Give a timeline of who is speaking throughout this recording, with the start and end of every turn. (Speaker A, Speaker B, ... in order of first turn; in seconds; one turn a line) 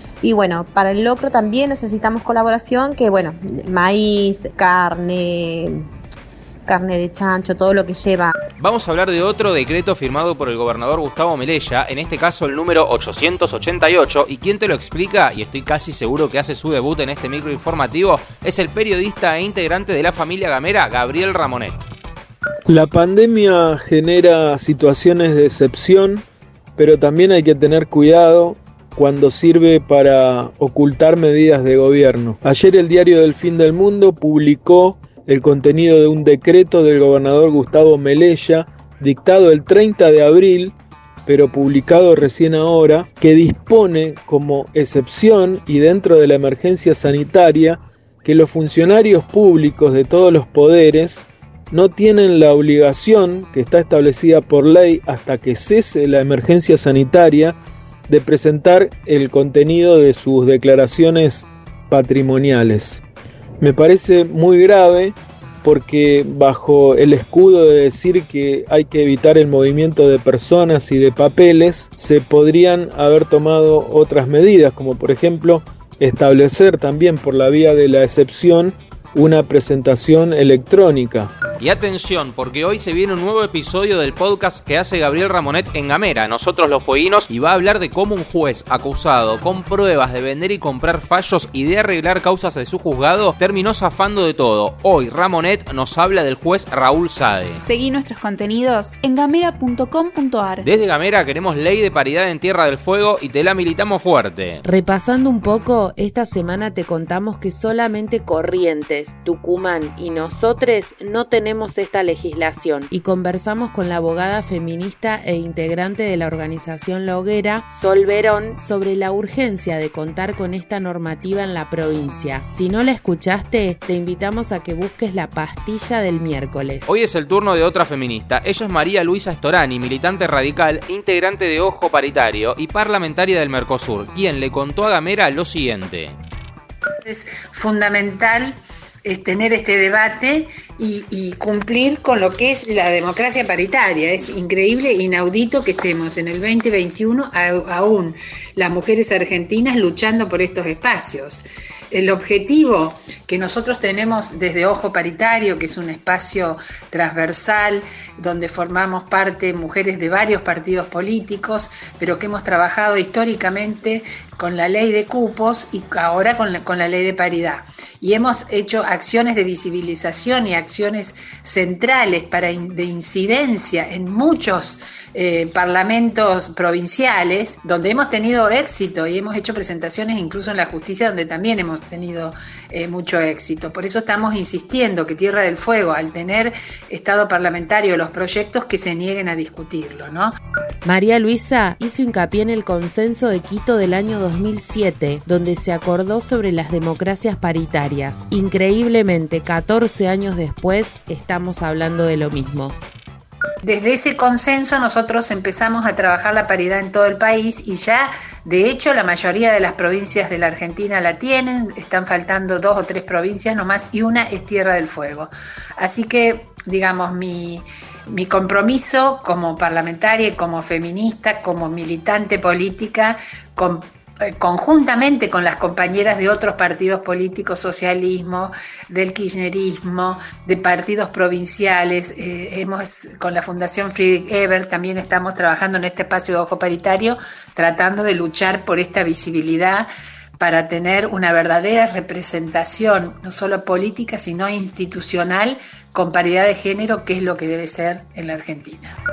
Speaker A: 0.2-5.8
Speaker A: 6.7-8.3
Speaker B: 8.6-21.8
Speaker C: 22.7-26.2
Speaker C: 26.8-40.8
Speaker C: 41.3-57.6
Speaker C: 58.1-63.0
Speaker C: 63.6-81.3
Speaker B: 81.6-97.6
Speaker D: 97.6-100.7
Speaker B: 100.6-104.6
Speaker E: 104.7-126.9
Speaker B: 126.9-136.2
Speaker F: 137.0-190.3
Speaker E: 190.8-202.8
Speaker F: 203.6-248.9